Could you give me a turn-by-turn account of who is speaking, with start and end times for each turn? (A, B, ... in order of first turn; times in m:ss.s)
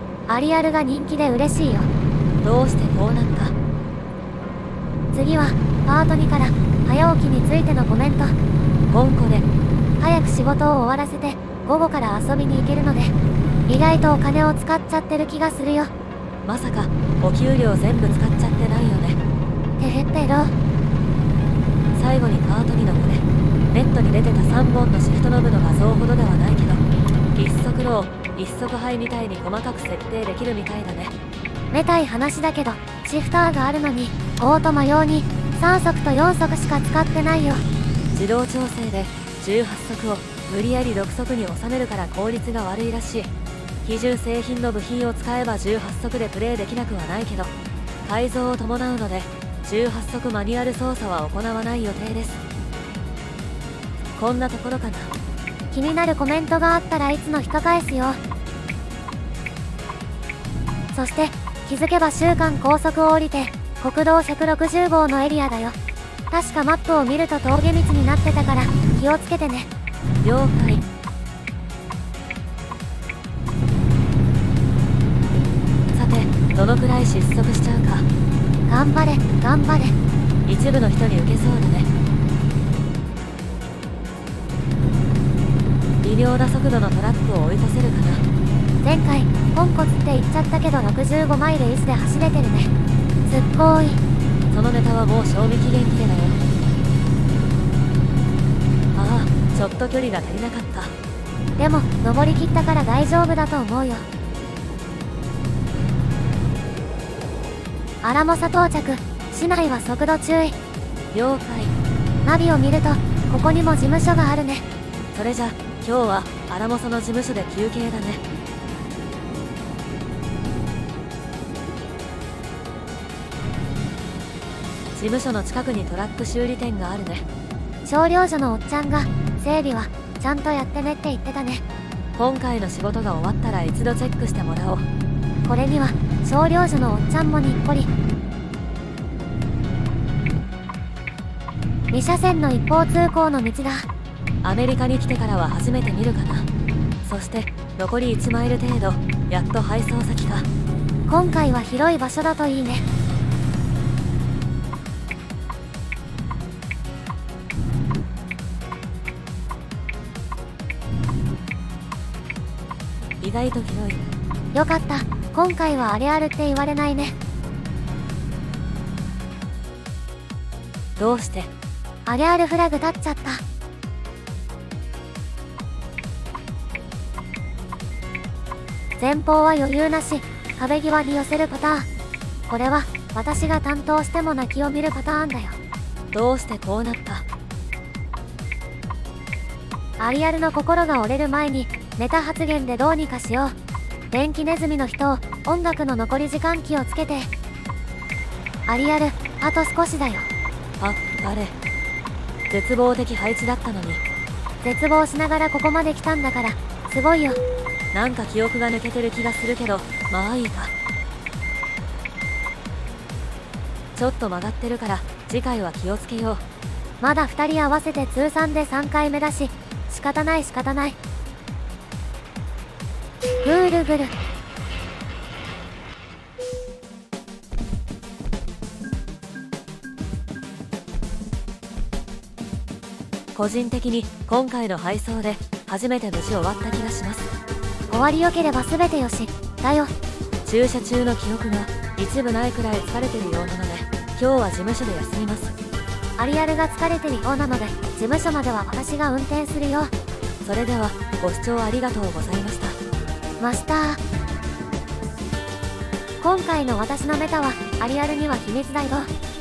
0:00.3-0:01.9 A
0:02.4-0:03.6 B
0:05.1-0:08.3 A
0:08.9-0:09.5 B
0:10.0-0:13.1 A
0:13.7-0:15.9 A
0:16.4-0:19.2 B
0:19.8-0:20.5 A
0:22.0-0:26.8 B
0:27.4-0:31.1 B
0:31.7-0:37.6 A
0:38.2-0:43.3 B
0:43.8-0:47.5 B
0:48.0-0:52.4 B
0:54.2-0:55.1 B
0:55.7-0:58.2 A
1:00.9-1:05.8 A
1:06.3-1:09.7 A
1:10.2-1:10.8 B
1:15.9-1:18.1 B
1:18.7-1:20.0 A
1:20.5-1:21.9 B
1:26.0-1:28.2 B
1:28.8-1:32.7 A
1:33.3-1:34.0 A
1:34.5-1:36.4 B
1:39.0-1:40.9 B
1:41.6-1:44.0 A
1:48.0-1:50.6 A
1:51.1-1:51.7 B
1:52.2-1:54.6 A
1:55.1-1:58.2 B
2:05.0-2:07.2 B
2:07.9-2:11.6 A
2:12.2-2:14.8 B
2:15.4-2:17.9 A
2:21.9-2:23.9 A
2:24.4-2:26.5 B
2:27.0-2:30.5 B
2:31.1-2:32.8 A
2:43.2-2:44.0 B
2:44.5-2:47.2 A
2:51.0-2:51.5 B
2:52.1-2:53.4 A
2:59.0-3:01.9 A
3:02.5-3:05.6 A
3:06.1-3:07.3 B
3:10.0-3:13.5 A
3:14.1-3:17.3 A
3:18.7-3:20.3 A
3:20.8-3:21.6 B
3:22.5-3:24.0 B
3:24.6-3:27.4 A
3:27.9-3:30.7 B
3:34.0-3:36.4 B
3:37.0-3:41.0 A
3:43.4-3:44.1 A
3:53.4-3:57.3 B
3:57.9-3:59.9 A
4:00.4-4:05.5 B
4:06.2-4:09.9 A
4:10.4-4:12.8 B
4:13.4-4:14.0 A
4:16.2-4:19.1 A